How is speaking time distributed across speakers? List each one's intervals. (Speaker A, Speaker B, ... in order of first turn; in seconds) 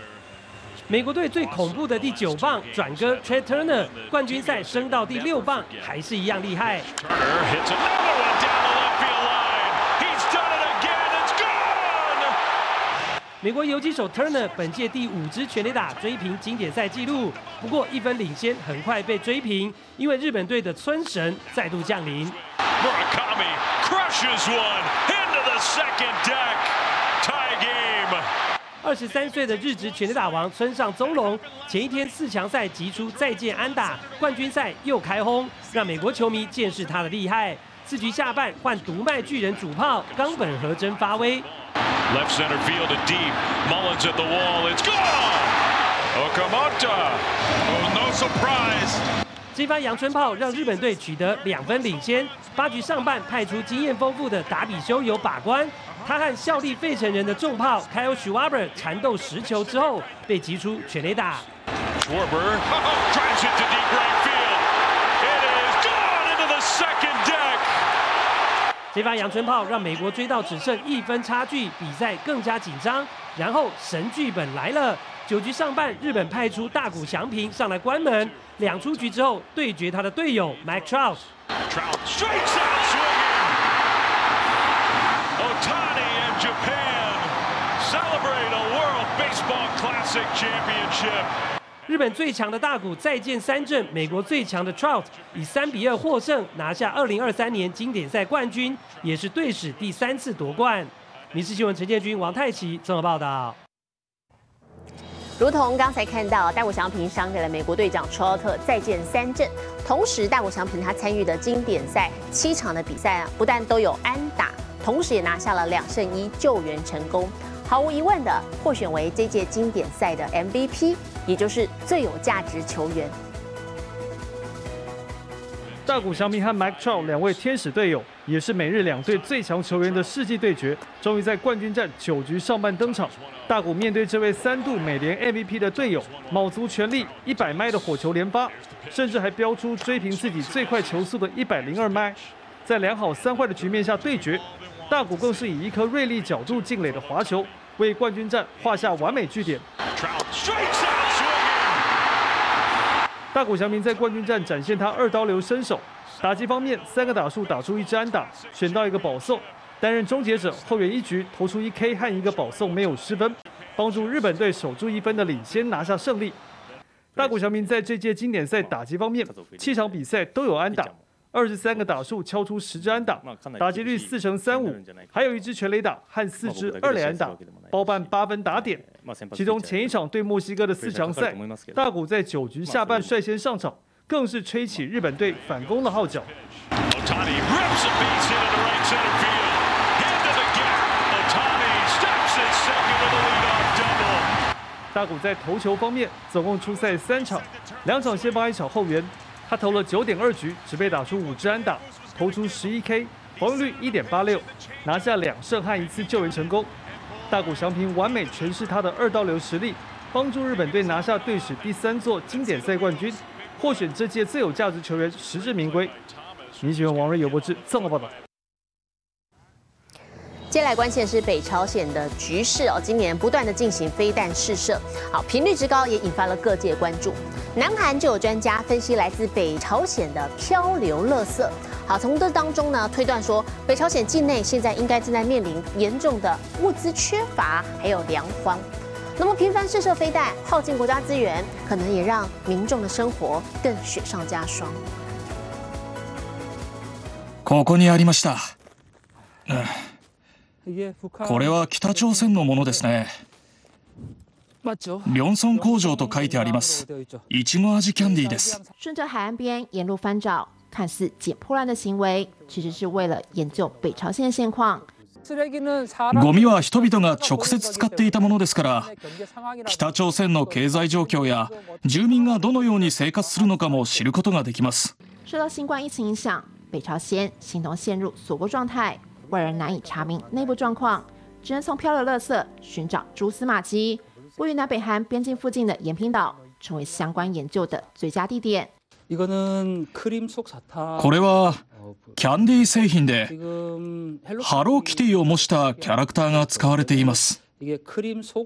Speaker A: 0.9-6.8, 13.4-22.4, 28.8-41.5, 49.5-61.5, 68.9-81.2, 91.9-103.6
Speaker B: 1.3-5.9, 6.8-12.3, 22.8-28.3, 42.1-45.6, 46.1-49.0, 62.0-64.7, 65.2-67.8, 78.3-78.7, 80.7-83.6, 85.4-91.3, 126.0-126.6, 133.0-133.4, 136.0-136.4, 137.1-137.3, 138.6-139.0, 139.9-141.1, 146.4-147.6, 150.0-151.8, 185.6-194.3, 216.6-216.9
Speaker C: 105.4-123.1, 220.5-244.8
Speaker D: 125.9-149.6, 153.3-166.4, 167.2-186.3, 194.9-206.7, 207.3-215.9, 216.6-218.1
Speaker E: 247.4-248.5, 249.5-249.9, 251.2-253.2, 255.0-258.6, 266.1-268.9, 269.6-274.9, 291.0-291.6, 292.1-293.4, 294.4-297.4
Speaker F: 258.8-264.8, 275.3-288.7